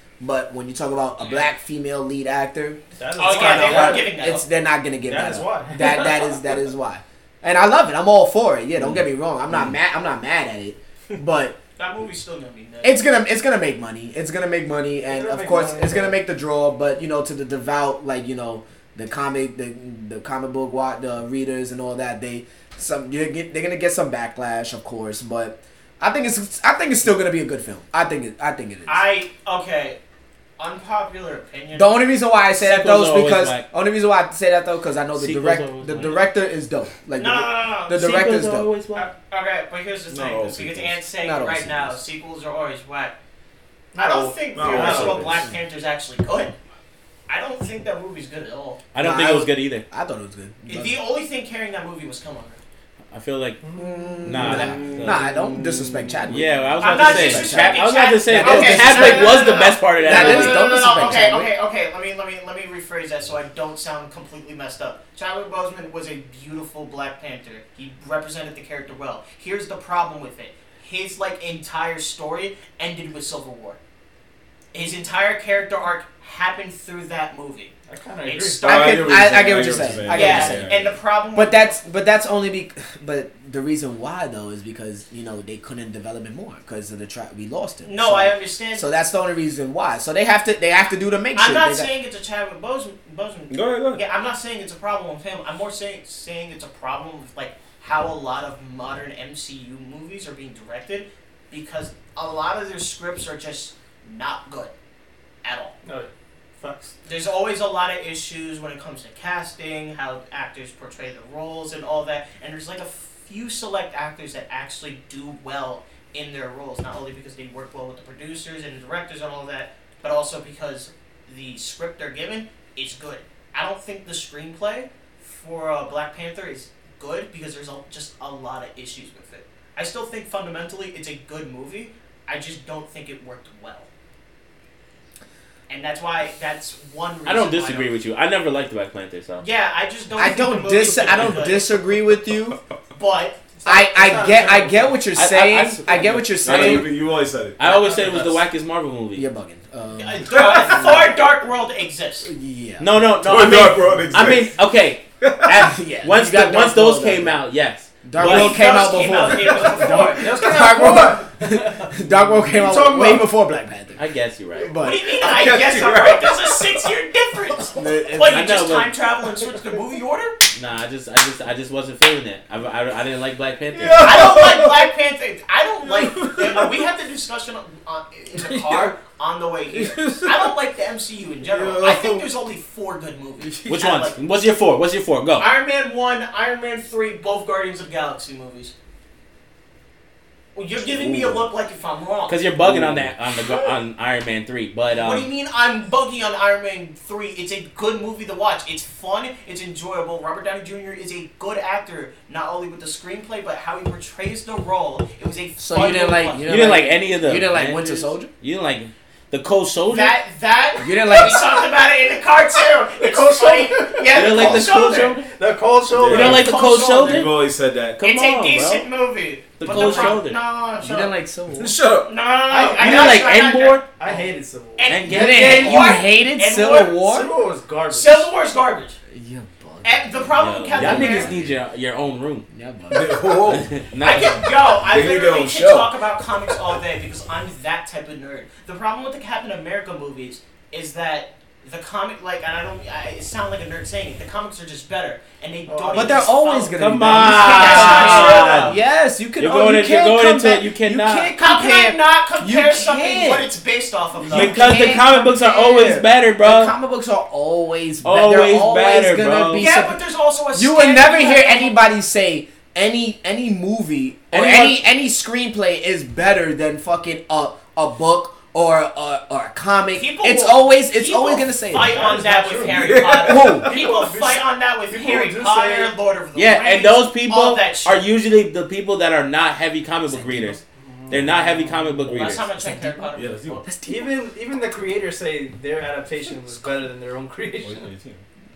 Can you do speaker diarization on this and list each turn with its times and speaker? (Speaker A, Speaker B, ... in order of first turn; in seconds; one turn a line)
Speaker A: 0.2-11.6
Speaker B: 1.2-1.5
Speaker C: 3.0-4.2
Speaker B: 3.2-4.5
Speaker C: 5.0-6.4
Speaker B: 11.8-13.1
Speaker A: 12.8-29.0
Speaker C: 15.1-16.2
Speaker B: 28.9-30.0
Speaker B: 30.6-31.9
Speaker A: 31.7-38.7
Speaker D: 32.6-33.7
Speaker D: 35.1-36.2
Speaker B: 37.2-38.1
Speaker D: 37.9-39.1
Speaker B: 39.0-43.1
Speaker E: 40.1-41.0
Speaker A: 41.2-42.0
Speaker C: 43.9-45.5
Speaker B: 44.0-46.5
Speaker E: 44.5-45.5
Speaker B: 47.3-48.8
Speaker D: 48.9-49.9
Speaker A: 49.0-51.0
Speaker B: 50.7-52.6
Speaker D: 53.1-53.6
Speaker C: 53.6-54.0
Speaker A: 53.7-61.5
Speaker D: 54.2-55.2
Speaker E: 54.4-56.5
Speaker D: 56.3-61.4
Speaker B: 56.8-73.8
Speaker B: 74.7-79.2
Speaker C: 77.9-78.7
Speaker E: 78.6-80.9
Speaker A: 78.6-80.8
Speaker B: 80.0-81.8
Speaker A: 81.3-91.9
Speaker B: 87.8-88.9
Speaker B: 91.3-104.7
Speaker E: 93.5-94.0
Speaker B: 105.4-105.8
Speaker C: 105.8-107.0
Speaker B: 107.0-133.9
Speaker B: 135.7-137.9
Speaker D: 137.2-139.4
Speaker B: 139.4-141.8
Speaker A: 140.2-142.6
Speaker B: 143.0-143.4
Speaker C: 143.6-145.0
Speaker A: 143.7-146.9
Speaker D: 145.1-146.9
Speaker E: 146.4-148.0
Speaker D: 147.6-149.3
Speaker C: 147.8-148.2
Speaker A: 149.2-151.1
Speaker B: 150.0-152.3
Speaker A: 152.2-152.9
Speaker D: 152.8-158.9
Speaker E: 153.2-154.5
Speaker E: 155.2-155.5
Speaker A: 155.4-157.4
Speaker A: 158.0-164.0
Speaker B: 158.2-160.4
Speaker C: 159.6-163.3
Speaker D: 164.0-164.7
Speaker A: 164.6-165.4
Speaker B: 164.8-170.4
Speaker E: 165.3-166.7
Speaker A: 167.7-168.6
Speaker D: 168.3-168.9
Speaker D: 170.5-174.3
Speaker E: 173.7-174.9
Speaker B: 174.0-184.2
Speaker E: 175.8-176.7
Speaker E: 179.7-180.5
Speaker E: 181.4-182.3
Speaker E: 183.4-183.7
Speaker D: 183.7-185.5
Speaker B: 185.4-188.7
Speaker B: 190.6-192.4
Speaker E: 190.8-191.5
Speaker D: 192.3-195.3
Speaker E: 192.6-193.1
Speaker B: 194.9-206.5
Speaker A: 205.6-208.3
Speaker D: 206.5-210.2
Speaker B: 209.9-215.2
Speaker A: 210.8-211.5
Speaker C: 212.9-216.4
Speaker D: 214.1-215.3
Speaker E: 215.9-218.0
Speaker D: 216.1-217.4
Speaker B: 216.1-217.3
Speaker D: 218.0-218.9
Speaker B: 218.0-221.2
Speaker D: 219.6-220.4
Speaker A: 219.7-220.2
Speaker A: 220.8-221.8
Speaker E: 221.6-222.1
Speaker B: 222.1-227.0
Speaker D: 222.5-223.8
Speaker C: 224.0-225.0
Speaker D: 224.9-225.9
Speaker A: 225.1-227.3
Speaker C: 227.0-228.3
Speaker B: 227.9-229.0
Speaker A: 229.1-231.2
Speaker B: 229.8-231.4
Speaker D: 230.4-232.5
Speaker A: 232.5-233.7
Speaker E: 232.9-233.7
Speaker D: 233.5-234.4
Speaker B: 234.0-248.8
Speaker E: 234.7-235.9
Speaker C: 245.7-246.3
Speaker A: 245.9-253.5
Speaker D: 246.8-248.8
Speaker D: 249.4-251.3
Speaker B: 251.4-255.2
Speaker A: 254.3-260.0
Speaker D: 254.3-256.7
Speaker D: 258.0-259.7
Speaker B: 259.6-261.8
Speaker A: 260.5-272.1
Speaker D: 264.3-264.8
Speaker B: 269.9-278.1
Speaker C: 271.8-275.9
Speaker E: 272.6-273.7
Speaker A: 273.2-273.7
Speaker D: 276.4-282.5
Speaker A: 280.1-280.6
Speaker C: 280.8-282.1
Speaker B: 282.1-283.7
Speaker E: 282.1-282.4
Speaker A: 282.6-283.1
Speaker E: 283.1-283.6
Speaker A: 283.6-284.2
Speaker C: 283.9-287.9
Speaker E: 287.6-288.2